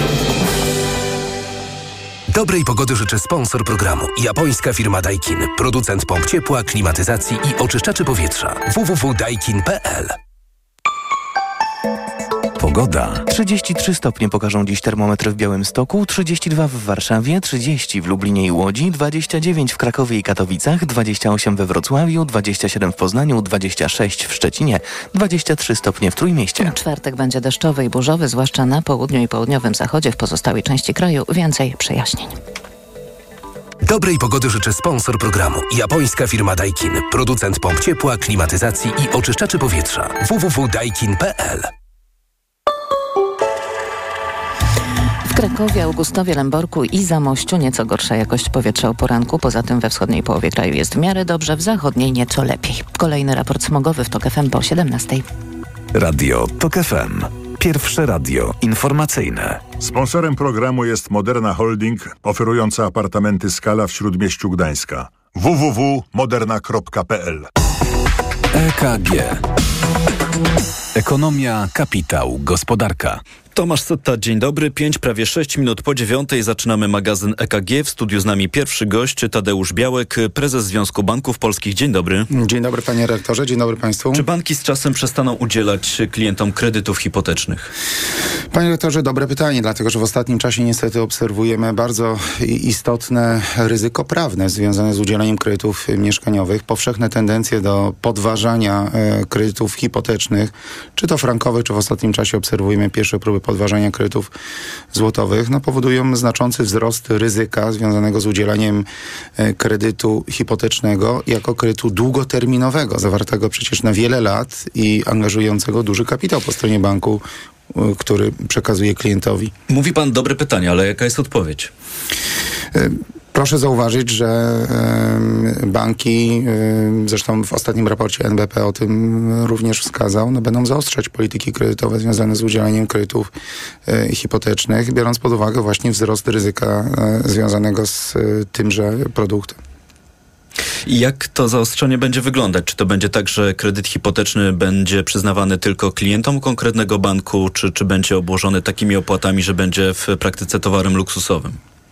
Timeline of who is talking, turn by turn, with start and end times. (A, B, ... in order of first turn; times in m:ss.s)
0:02.3-0:10.2 A
0:12.6-0:13.3 B
0:13.3-0:26.8 C
0:26.6-0:32.4 D
0:33.8-0:41.7 A
0:45.3-0:55.2 D
0:55.9-0:59.6 B
0:59.8-1:07.5 E
1:08.5-1:09.4 B
1:11.0-1:13.2 B
1:13.5-1:22.3 F
1:22.3-1:24.3 G
1:24.1-1:27.7 F
1:28.5-1:44.3 G
1:44.9-1:48.9 G
1:49.4-1:59.5 G
1:59.7-2:01.7 F
2:02.7-2:13.3 G
2:13.9-2:19.6 G
2:20.9-2:31.6 F